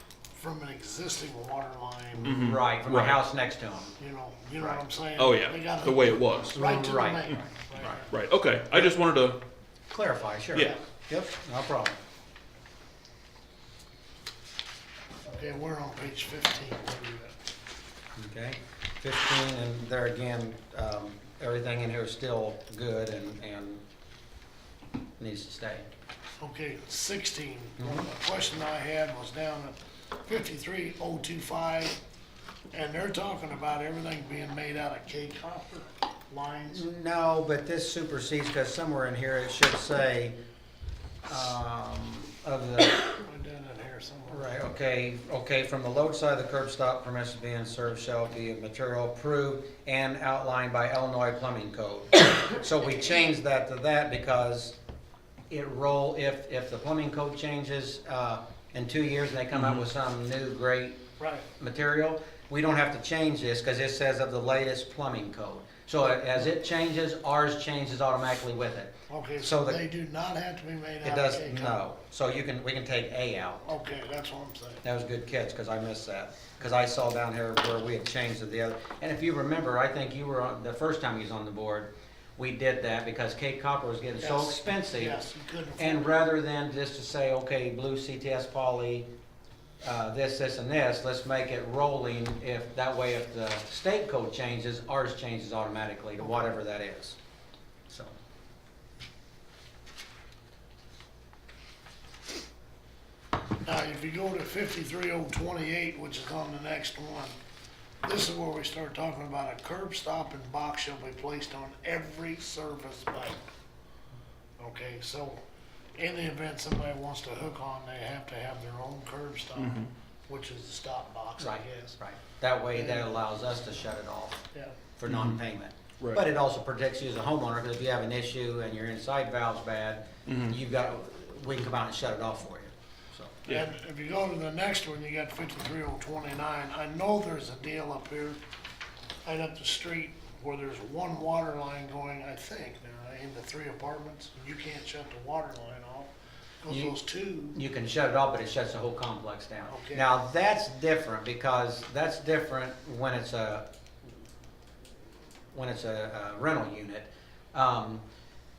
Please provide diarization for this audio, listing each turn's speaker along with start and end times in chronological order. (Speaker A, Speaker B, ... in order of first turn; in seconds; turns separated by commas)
Speaker A: 0.3-2.5, Speaker B: 2.2-4.0, Speaker C: 2.4-3.1, Speaker A: 4.0-8.2, Speaker C: 6.2-6.5, Speaker B: 6.5-7.5, Speaker C: 8.1-9.3, Speaker B: 9.9-12.0, Speaker A: 15.2-17.3, Speaker B: 18.2-23.8, Speaker B: 25.2-25.9, Speaker A: 26.4-32.0, Speaker B: 27.8-28.1, Speaker A: 32.7-36.8, Speaker B: 36.7-40.3, Speaker B: 41.3-43.1, Speaker A: 43.1-44.5, Speaker B: 44.3-54.8, Speaker B: 55.5-61.0, Speaker A: 61.2-61.5, Speaker B: 61.6-69.8, Speaker A: 69.1-71.8, Speaker B: 71.0-73.7, Speaker A: 73.7-74.8, Speaker B: 74.8-85.2, Speaker A: 84.2-86.2, Speaker B: 85.8-89.1, Speaker B: 89.8-97.2, Speaker B: 97.9-98.2, Speaker A: 103.6-107.3, Speaker A: 108.0-113.4, Speaker A: 114.6-115.4, Speaker A: 115.9-122.0, Speaker B: 121.4-124.4, Speaker A: 122.7-123.0, Speaker B: 125.0-133.6, Speaker A: 133.5-138.4, Speaker A: 139.2-146.1, Speaker A: 146.6-147.6, Speaker B: 146.7-146.9, Speaker B: 147.5-153.7, Speaker A: 149.7-150.1, Speaker B: 155.5-158.0